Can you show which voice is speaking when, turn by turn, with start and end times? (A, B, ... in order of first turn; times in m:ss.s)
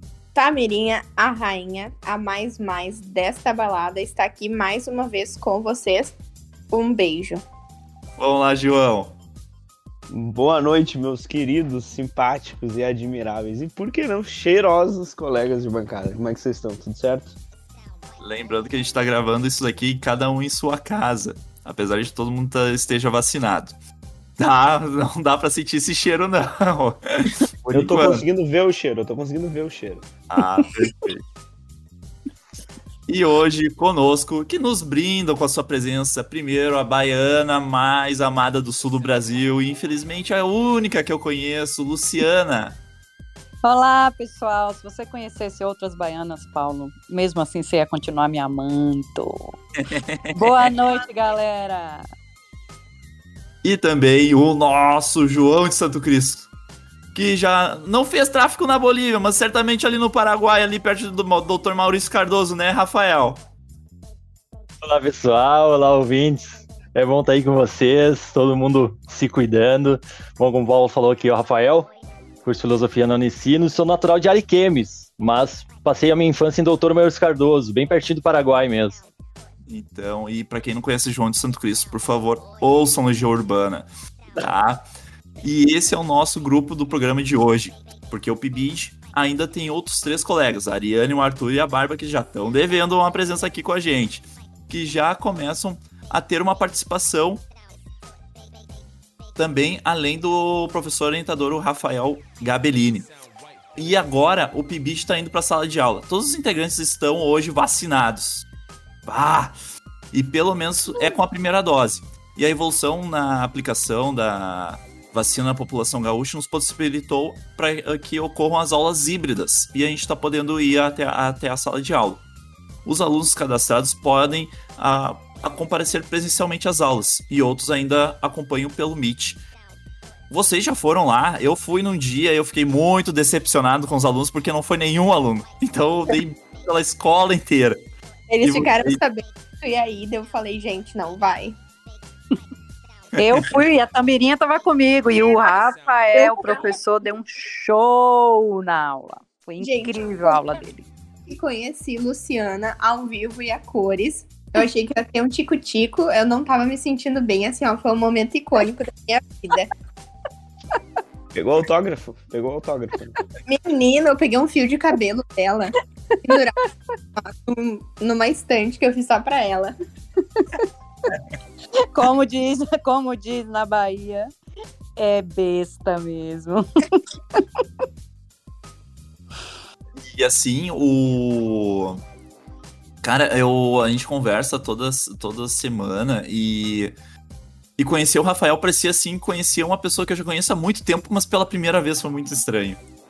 0:00.4-0:06.2 A
0:06.7-0:07.4 A
0:08.2-0:09.2 B
0:10.1-0:17.4 C
0:18.2-0:23.8 B
0:24.4-0:28.2 B
0:27.7-0:30.0 C
0:30.3-0:31.2 B
0:33.1-0:42.8 B
0:43.6-0:49.6 D
0:49.8-0:50.6 B
0:50.3-0:52.1 D
0:53.6-0:56.5 B
0:57.1-1:03.4 B
1:04.8-1:11.9 E
1:12.4-1:19.0 E
1:19.6-1:24.8 B
1:25.4-1:37.4 B
1:39.4-1:43.1 B
1:43.8-1:48.4 B
1:49.0-1:49.6 B
1:50.1-2:02.2 B
2:02.8-2:09.4 B
2:10.3-2:17.8 B
2:18.3-2:21.5 A
2:18.4-2:19.0 B
2:23.2-2:30.9 D
2:26.2-2:26.6 A
2:29.6-2:30.4 A
2:31.3-2:39.7 A
2:41.3-2:43.2 C
2:43.4-2:45.7 A
2:46.2-2:46.6 A
2:47.2-2:49.7 A
2:51.9-2:54.3 D
2:55.0-2:57.6 D
3:00.0-3:02.0 B
3:03.0-3:06.9 B
3:07.8-3:12.8 B